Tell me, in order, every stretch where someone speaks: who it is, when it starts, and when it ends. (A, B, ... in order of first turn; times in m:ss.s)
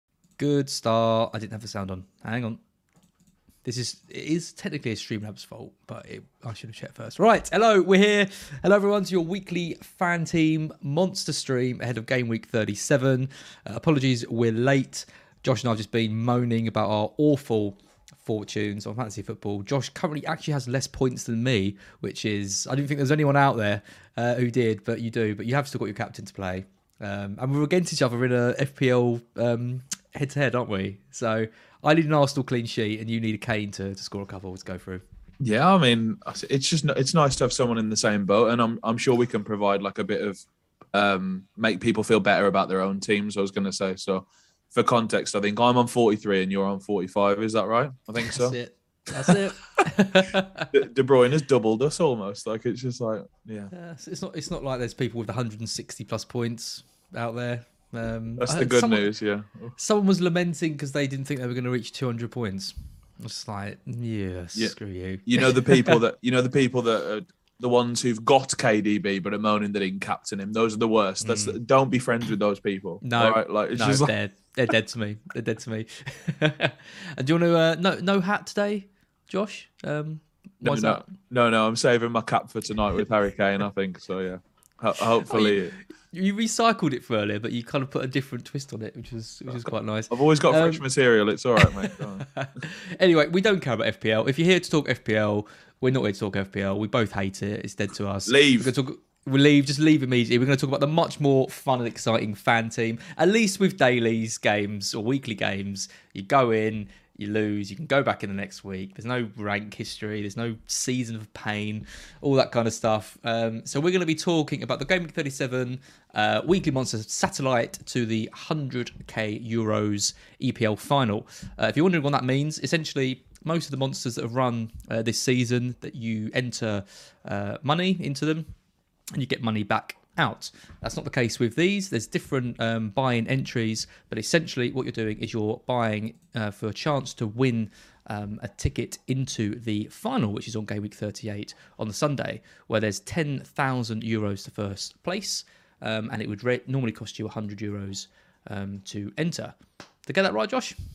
0:00.4-0:02.6 A
0:03.6-0:35.0 A
0:35.4-0:40.4 B
0:40.9-0:48.6 B
0:48.2-0:50.7 A
0:49.1-0:49.4 B
0:50.7-0:53.7 B
0:53.7-0:59.1 A
0:58.4-0:59.7 B
0:59.8-1:06.0 A
1:05.2-1:14.1 B
1:11.2-1:11.6 A
1:13.0-1:21.1 A
1:20.6-1:25.8 B
1:25.2-1:30.8 A
1:29.5-1:32.3 B
1:31.6-2:08.5 A
1:38.2-1:38.7 B
2:09.1-2:30.8 A